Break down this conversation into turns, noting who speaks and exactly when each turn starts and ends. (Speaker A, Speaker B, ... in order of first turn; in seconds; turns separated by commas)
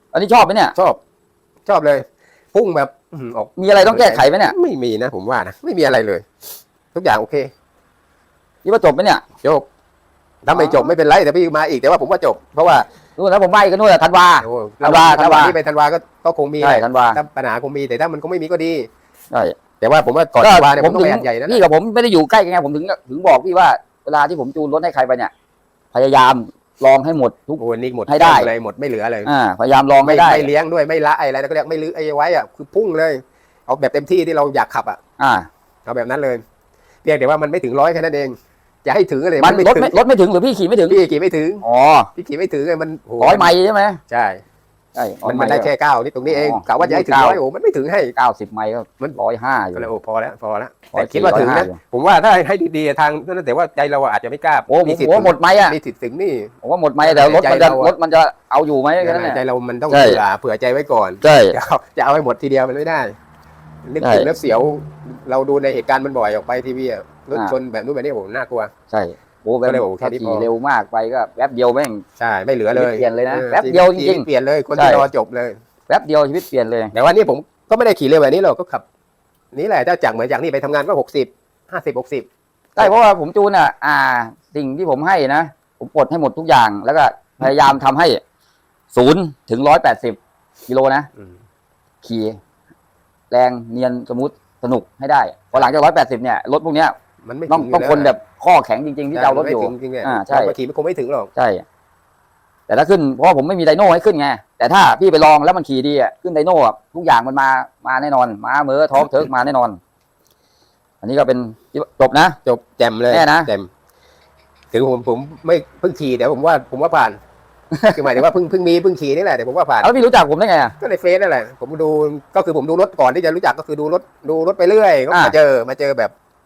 Speaker A: 0.1-0.8, Speaker B: 0.8-1.0, Speaker B: 1.7-6.3, Speaker A: 3.6-4.5, Speaker B: 6.9-7.5, Speaker A: 8.7-9.2, Speaker B: 10.4-12.9, Speaker A: 10.5-10.8, Speaker A: 13.2-15.6, Speaker B: 14.4-18.9, Speaker A: 16.6-17.2, Speaker A: 19.3-19.6, Speaker B: 19.8-21.6, Speaker A: 20.4-25.3, Speaker A: 25.9-28.5, Speaker B: 27.6-29.3, Speaker A: 29.3-30.5, Speaker B: 30.0-35.0, Speaker A: 35.2-35.5, Speaker B: 35.9-36.4, Speaker B: 37.0-40.0, Speaker A: 39.4-41.0, Speaker B: 40.9-41.6, Speaker A: 41.6-42.1, Speaker B: 42.2-43.5, Speaker A: 43.2-44.0, Speaker B: 44.1-44.4, Speaker A: 45.0-45.7, Speaker B: 45.2-48.1, Speaker A: 46.3-47.4, Speaker A: 48.1-49.9, Speaker B: 49.8-58.0, Speaker A: 50.9-51.8, Speaker A: 54.7-55.8, Speaker A: 56.6-60.2, Speaker B: 59.0-63.1, Speaker A: 61.2-61.6, Speaker B: 63.9-68.7, Speaker A: 64.0-64.3, Speaker A: 68.9-72.0, Speaker B: 69.7-70.5, Speaker B: 72.2-75.6, Speaker A: 72.7-75.1, Speaker A: 75.9-76.9, Speaker B: 76.9-78.8, Speaker B: 79.5-82.9, Speaker A: 82.8-88.2, Speaker A: 88.9-91.1, Speaker A: 92.0-92.4, Speaker A: 93.3-97.0, Speaker B: 97.2-98.2, Speaker A: 97.5-100.5, Speaker B: 99.1-101.3, Speaker A: 101.4-101.7, Speaker A: 102.7-109.8, Speaker A: 111.0-112.4, Speaker B: 112.5-113.7, Speaker A: 113.1-113.5, Speaker B: 114.7-117.2, Speaker A: 117.7-118.1, Speaker B: 117.9-119.9, Speaker A: 119.8-120.8, Speaker B: 120.8-126.1